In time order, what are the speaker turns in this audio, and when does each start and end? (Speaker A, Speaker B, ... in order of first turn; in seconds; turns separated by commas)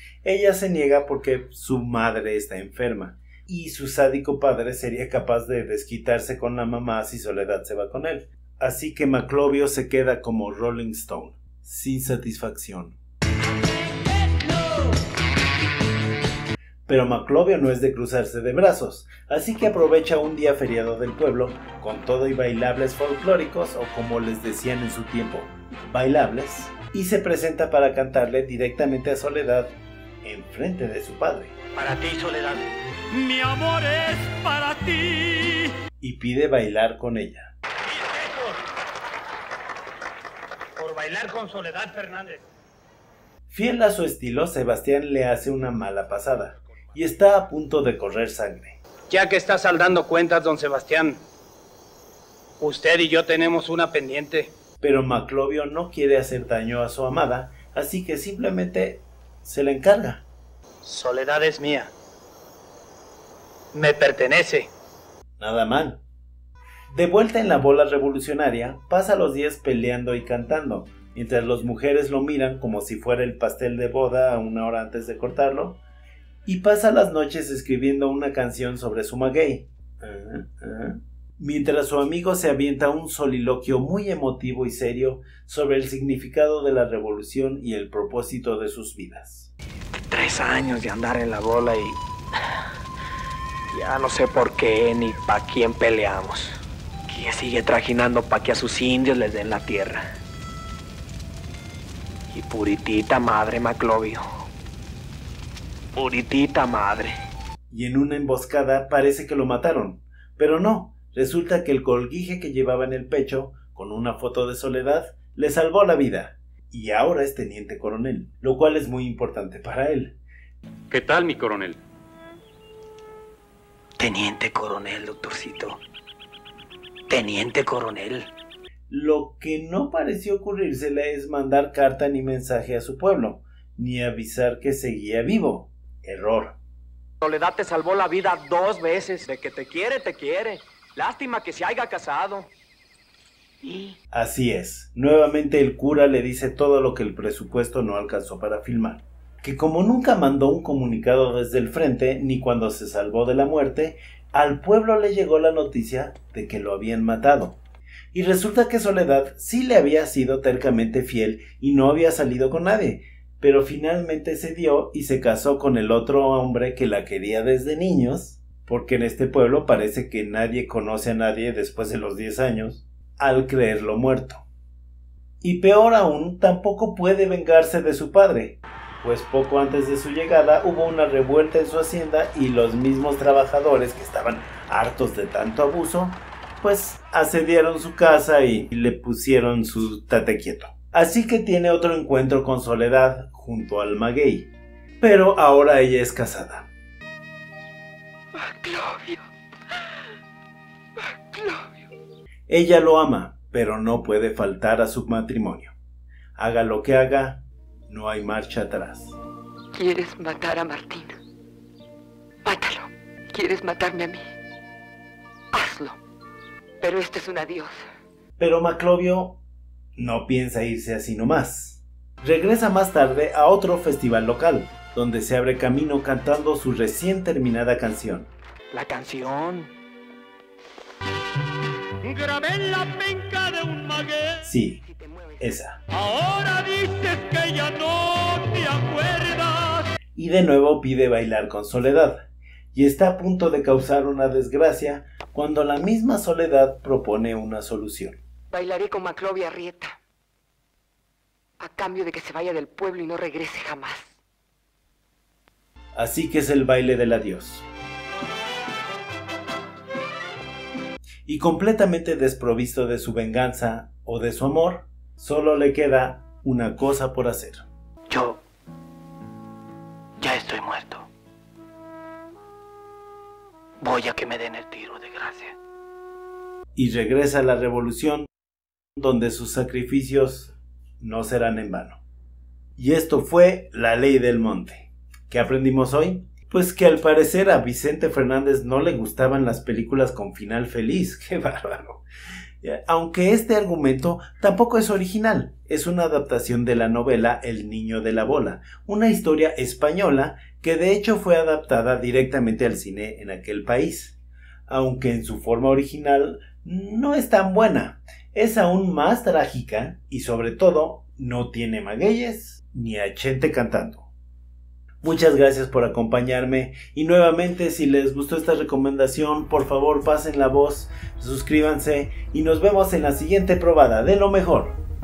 Speaker A: 0.2-13.0, Speaker A: 16.9-31.5, Speaker B: 31.8-32.6, Speaker C: 33.1-35.6, Speaker A: 36.0-37.5, Speaker B: 37.9-38.6, Speaker B: 40.8-42.4, Speaker A: 43.5-48.8, Speaker B: 49.1-51.2, Speaker B: 52.6-54.5, Speaker A: 54.8-60.2, Speaker B: 60.8-61.9, Speaker B: 63.7-64.7, Speaker A: 65.4-66.0, Speaker A: 66.9-75.8, Speaker A: 76.5-89.5, Speaker D: 90.1-92.5, Speaker D: 93.7-100.0, Speaker D: 102.3-104.3, Speaker D: 106.0-107.1, Speaker A: 107.7-120.2, Speaker C: 120.9-121.8, Speaker D: 124.0-125.8, Speaker D: 127.1-128.3, Speaker A: 128.9-136.6, Speaker D: 137.2-142.5, Speaker D: 143.6-143.9, Speaker A: 144.1-157.6, Speaker A: 158.1-174.4, Speaker A: 175.4-196.7, Speaker E: 198.3-199.3, Speaker E: 201.0-201.9, Speaker A: 202.5-205.7, Speaker A: 206.4-209.1, Speaker E: 209.7-211.2, Speaker E: 212.4-214.2, Speaker E: 215.5-216.0, Speaker E: 216.8-217.8, Speaker A: 218.4-219.4, Speaker A: 220.0-228.3, Speaker D: 228.7-229.7, Speaker C: 232.0-234.3, Speaker A: 234.4-234.8, Speaker E: 234.9-235.3, Speaker A: 235.4-235.8, Speaker C: 235.9-239.8, Speaker A: 240.1-248.2, Speaker E: 248.5-250.0, Speaker E: 251.6-254.1, Speaker A: 255.9-257.6, Speaker A: 261.2-267.6, Speaker D: 268.1-268.4, Speaker D: 270.2-271.1, Speaker D: 273.8-275.5, Speaker A: 276.8-278.3, Speaker A: 278.9-282.0, Speaker A: 282.8-292.0, Speaker A: 292.6-304.2, Speaker A: 304.7-314.1, Speaker A: 315.0-324.8